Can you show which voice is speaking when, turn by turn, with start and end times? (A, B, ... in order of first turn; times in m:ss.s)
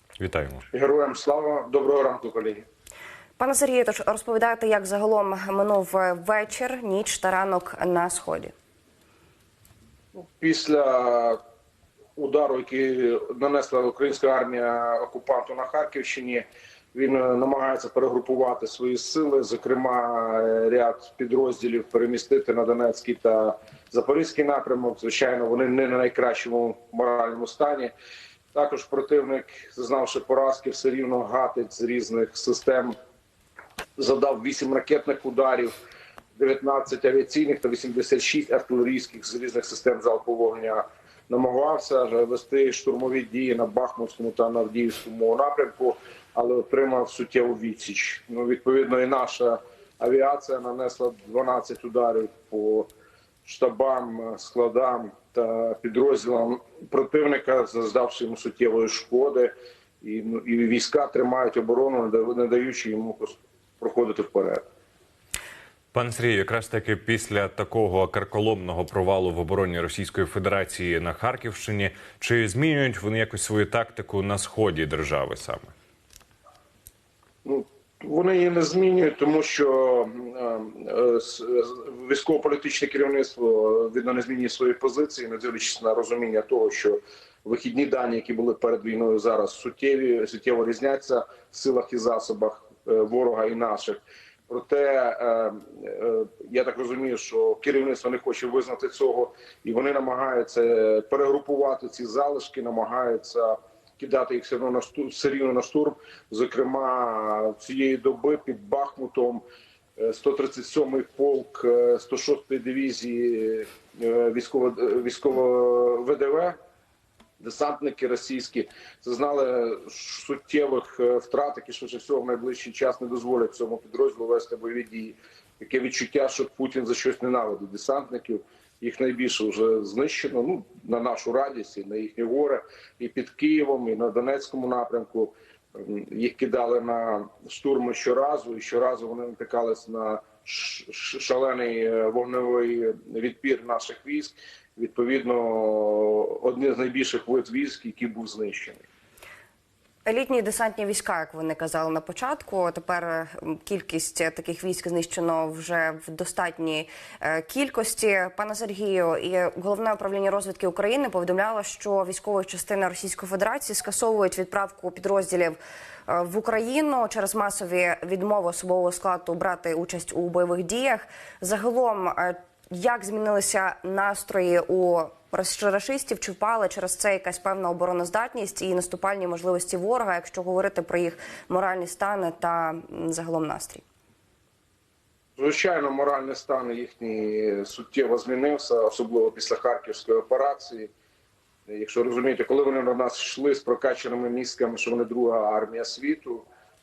0:00.2-0:00.6 A
0:00.7-0:02.6 B
0:03.4-0:08.5 C
0:10.1-0:11.4 B
0:12.2-0:27.9 B
0:28.5-0:33.0 B
0:34.0-0:35.7 B
0:36.4-0:52.9 B
0:53.4-1:04.6 B
1:05.9-1:15.7 A
1:17.4-1:49.4 B
1:50.0-1:56.6 B
1:57.4-2:28.9 B
2:30.0-3:03.8 C
3:05.4-3:10.9 B
3:11.7-3:16.5 B